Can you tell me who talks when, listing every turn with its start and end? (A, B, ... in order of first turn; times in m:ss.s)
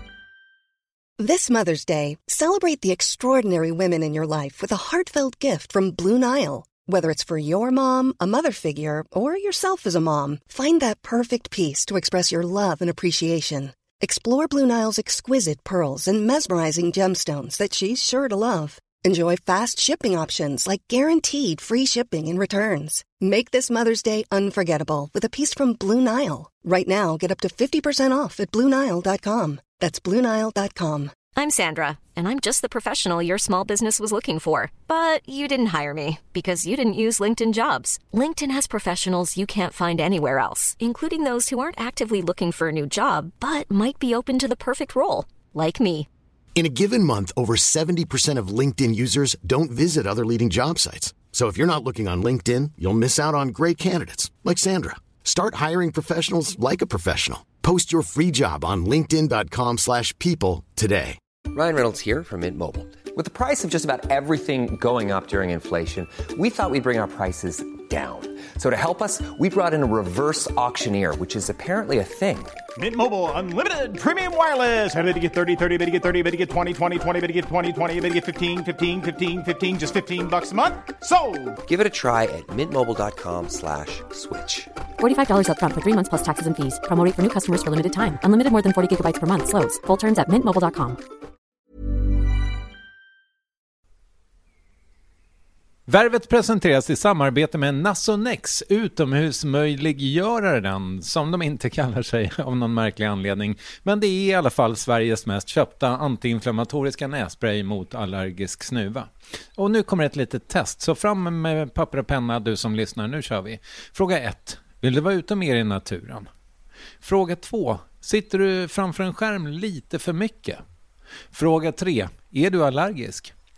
0:01.2-0:31.1 A
0:31.4-0:46.1 B
0:46.5-1:01.2 C
1:01.5-1:12.6 D
1:12.8-1:21.6 E
1:21.6-1:24.7 D
1:25.0-1:31.0 F
1:35.9-1:56.3 G
1:57.0-2:00.6 G
2:01.3-2:03.3 G